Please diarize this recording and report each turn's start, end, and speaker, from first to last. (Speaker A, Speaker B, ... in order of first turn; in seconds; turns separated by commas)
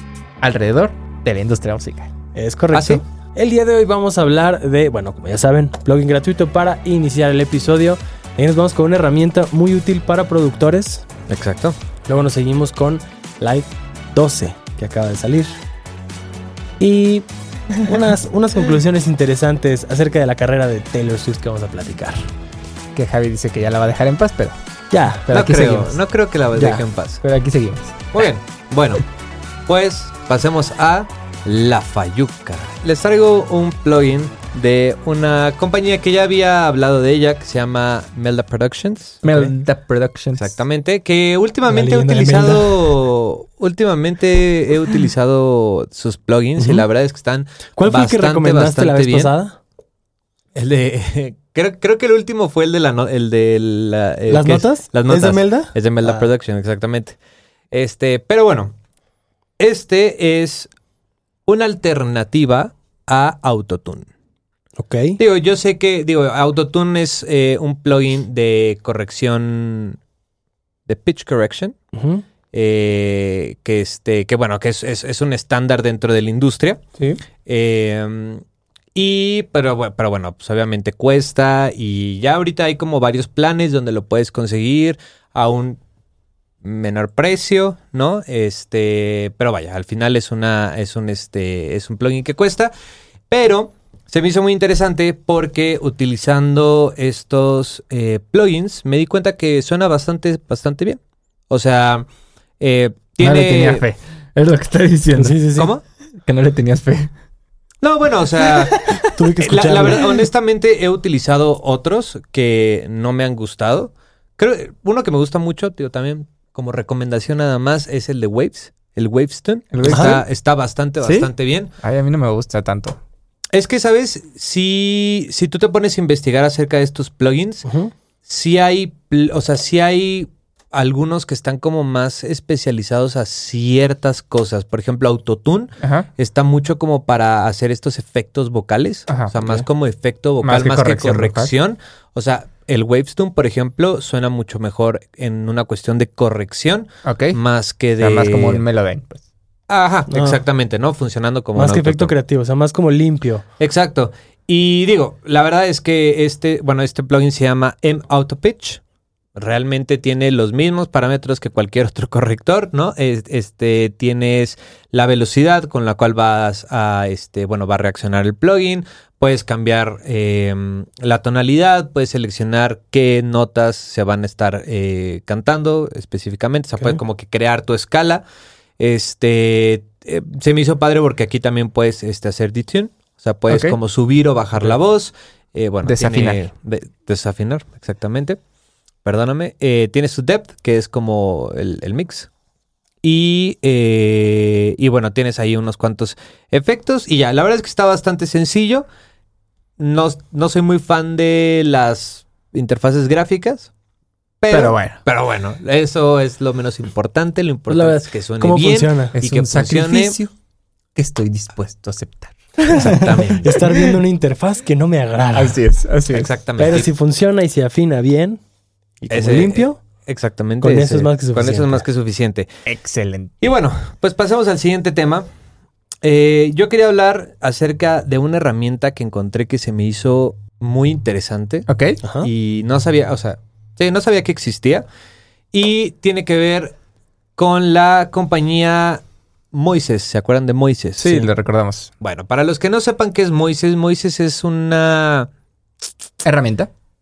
Speaker A: 0.4-2.1, Speaker B: 2.3-11.1, Speaker C: 2.7-3.0, Speaker C: 11.3-11.8, Speaker B: 12.1-15.5, Speaker B: 16.8-17.2, Speaker B: 17.8-22.3, Speaker A: 22.9-24.5, Speaker B: 24.9-25.2, Speaker A: 25.2-25.9, Speaker C: 25.3-27.2, Speaker A: 26.5-28.1, Speaker C: 28.1-29.0, Speaker C: 29.7-39.5, Speaker A: 39.2-40.5, Speaker C: 40.4-49.3, Speaker B: 41.7-43.0, Speaker B: 46.6-46.8, Speaker B: 47.8-49.6, Speaker C: 50.5-57.2, Speaker B: 54.3-56.3, Speaker C: 57.7-58.7, Speaker C: 59.6-60.7, Speaker C: 61.5-64.1, Speaker B: 64.8-65.2, Speaker C: 65.2-70.0, Speaker C: 70.9-71.7, Speaker B: 71.9-72.2, Speaker C: 72.5-76.8, Speaker C: 77.4-78.4, Speaker C: 78.9-85.8, Speaker C: 86.6-92.7, Speaker C: 93.3-102.0, Speaker C: 102.6-103.8, Speaker A: 103.2-105.4, Speaker B: 105.2-105.7, Speaker C: 105.5-105.8, Speaker A: 106.2-107.1, Speaker C: 107.8-108.8, Speaker A: 108.5-109.1, Speaker B: 109.0-110.2, Speaker C: 109.4-121.7, Speaker A: 119.7-120.2, Speaker B: 119.9-120.2, Speaker A: 121.0-123.0, Speaker C: 123.5-127.7, Speaker B: 127.6-127.9, Speaker C: 128.2-148.6, Speaker A: 135.8-136.1, Speaker A: 140.4-141.5, Speaker A: 147.0-147.4, Speaker A: 148.0-149.2, Speaker C: 149.7-152.1, Speaker B: 150.1-150.4, Speaker B: 151.6-153.4, Speaker C: 153.6-158.8, Speaker C: 159.3-178.2, Speaker C: 178.8-188.4, Speaker A: 183.5-183.8, Speaker A: 185.8-186.5, Speaker C: 189.0-192.3, Speaker C: 193.0-198.8, Speaker C: 199.8-203.7, Speaker C: 204.4-210.2, Speaker A: 204.5-205.0, Speaker B: 207.7-209.2, Speaker A: 209.1-210.3, Speaker A: 210.9-213.9, Speaker C: 212.7-213.5, Speaker B: 213.4-215.6, Speaker A: 215.3-216.3, Speaker C: 216.1-216.9, Speaker B: 216.6-218.4, Speaker B: 219.0-219.8, Speaker C: 219.1-222.5, Speaker B: 220.6-221.8, Speaker A: 222.7-223.3, Speaker C: 223.4-225.3, Speaker C: 226.0-231.7, Speaker A: 231.7-232.0, Speaker B: 232.0-232.3, Speaker C: 232.2-234.8, Speaker C: 235.5-236.8, Speaker C: 237.4-241.2, Speaker A: 241.0-241.9, Speaker C: 242.0-245.3, Speaker A: 246.2-246.7